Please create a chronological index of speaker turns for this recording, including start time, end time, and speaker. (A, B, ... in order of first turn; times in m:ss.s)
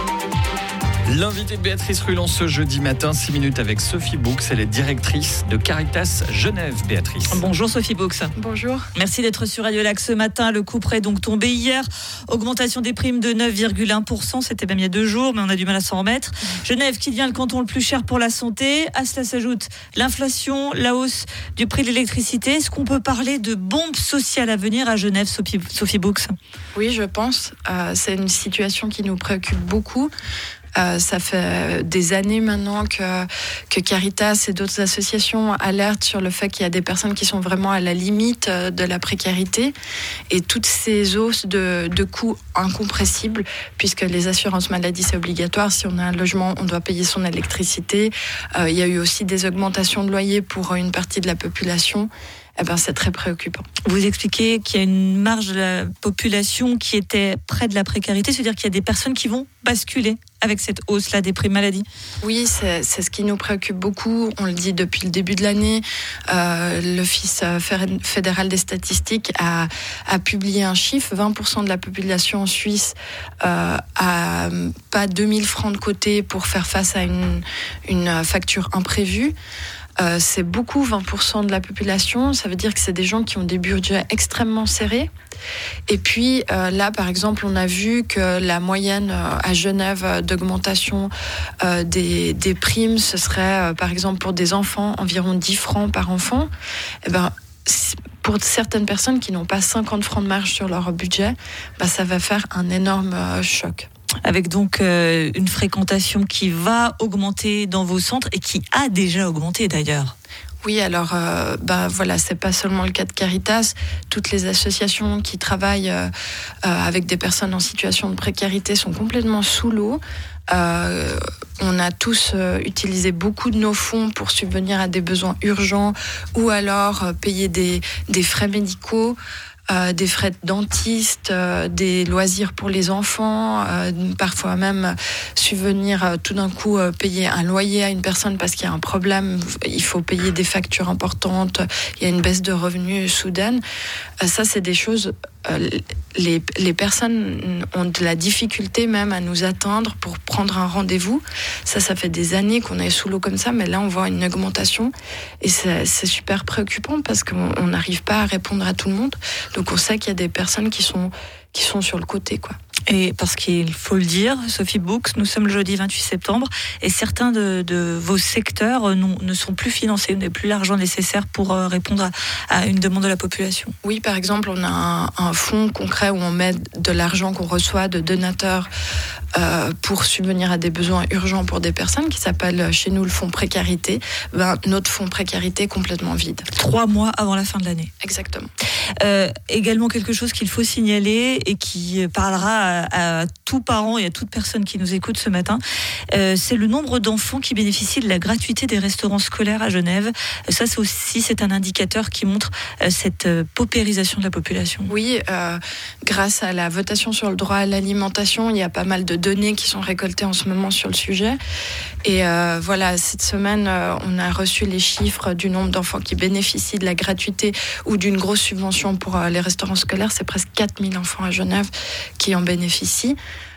0:01.1-0:07.4 A
0:07.3-0:08.3 B
0:08.4-0:08.9 C
0:09.0-0:26.4 B
0:26.8-0:30.1 C
0:30.8-0:39.8 C
0:40.3-0:53.7 C
0:53.9-1:01.9 B
1:02.2-1:19.4 C
1:20.0-1:25.1 C
1:25.9-1:36.5 C
1:37.0-1:43.9 C
1:44.2-1:50.1 B
1:50.6-1:56.1 C
1:56.6-2:09.2 C
2:09.7-2:23.6 C
2:24.2-2:42.6 C
2:42.9-2:53.8 B
2:53.8-2:58.7 C
2:59.4-3:06.5 C
3:06.5-3:07.9 B
3:08.0-3:08.5 C
3:09.0-3:15.6 B
3:16.1-3:24.9 B
3:24.9-3:31.4 C
3:32.0-3:43.2 C